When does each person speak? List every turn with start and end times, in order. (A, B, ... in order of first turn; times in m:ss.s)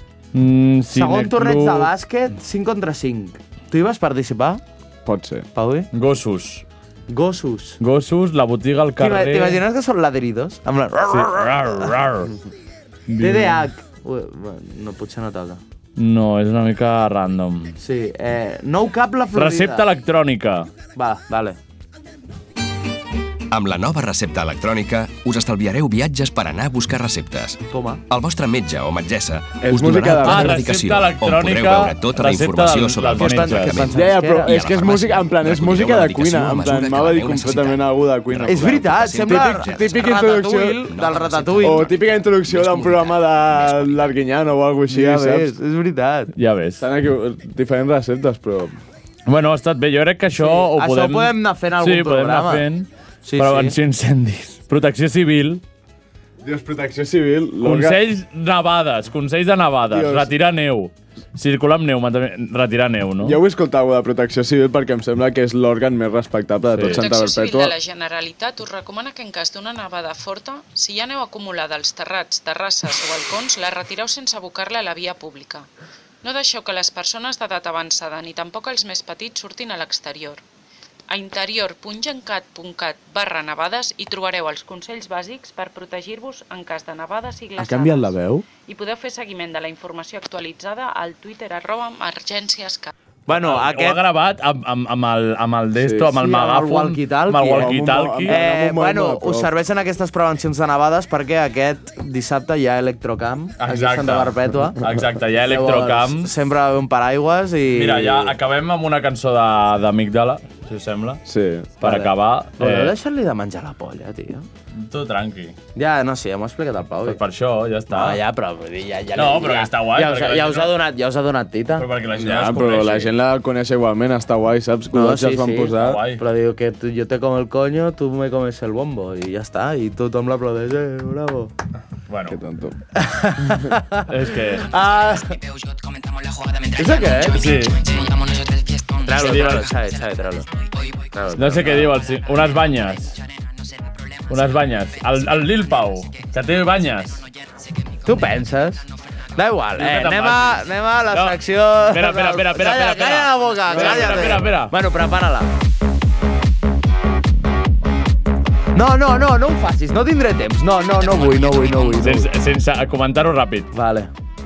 0:00.3-0:01.9 A
0:00.9-0:04.6 B
0:05.1-0:05.5 C
0:05.6-0:05.9 B
0:05.9-0:06.6 A
0:07.1-0:07.8 B
0:07.8-0:09.6 A
0:09.0-0:11.9 B
0:11.1-0:12.3 A
0:13.1-0:13.6 A
0:13.2-0:15.6 B
0:16.0-0:17.8 A
0:17.8-0:19.9 B
0:19.3-0:20.7 A
0:21.0-0:21.6 B
0:23.5-0:44.0 D
0:27.7-0:28.0 B
0:29.6-0:30.7 C
0:30.2-0:33.8 A
0:33.2-0:34.8 B
0:33.9-0:40.9 C
0:38.4-0:41.9 B
0:41.6-0:45.5 C
0:44.9-0:46.3 B
0:46.4-0:46.8 A
0:46.8-0:48.8 C
0:49.3-0:55.6 A
0:50.4-0:52.6 B
0:53.2-0:53.8 B
0:56.4-0:58.0 C
0:57.6-1:03.4 A
0:59.9-1:00.3 C
1:03.2-1:07.8 C
1:06.7-1:07.0 A
1:06.9-1:15.7 E
1:16.2-1:20.4 E
1:21.1-1:32.9 E
1:27.6-1:28.5 C
1:33.3-1:34.0 B
1:33.3-1:38.4 A
1:35.8-1:36.2 C
1:36.2-1:44.8 B
1:37.5-1:39.5 C
1:43.6-1:46.3 A
1:45.4-1:48.4 B
1:47.7-1:51.2 A
1:51.3-1:51.7 C
1:51.8-1:52.9 A
1:51.8-1:54.5 B
1:54.7-1:55.6 A
1:55.8-1:57.2 B
1:57.0-1:58.2 A
1:57.9-2:01.9 B
1:59.2-2:00.7 A
2:01.8-2:03.1 A
2:02.2-2:06.0 C
2:04.9-2:11.5 B
2:05.8-2:06.2 A
2:12.1-2:12.4 A
2:12.3-2:12.8 C
2:13.0-2:15.4 B
2:14.1-2:14.7 A
2:16.7-2:17.5 B
2:17.3-2:17.8 A
2:19.0-2:20.5 B
2:19.2-2:19.7 A
2:21.0-2:22.0 B
2:21.4-2:23.2 A
2:24.3-2:27.2 A
2:28.0-2:35.5 B
2:29.8-2:34.7 A
2:38.7-2:42.3 B
2:42.0-2:43.7 A
2:43.7-2:44.1 B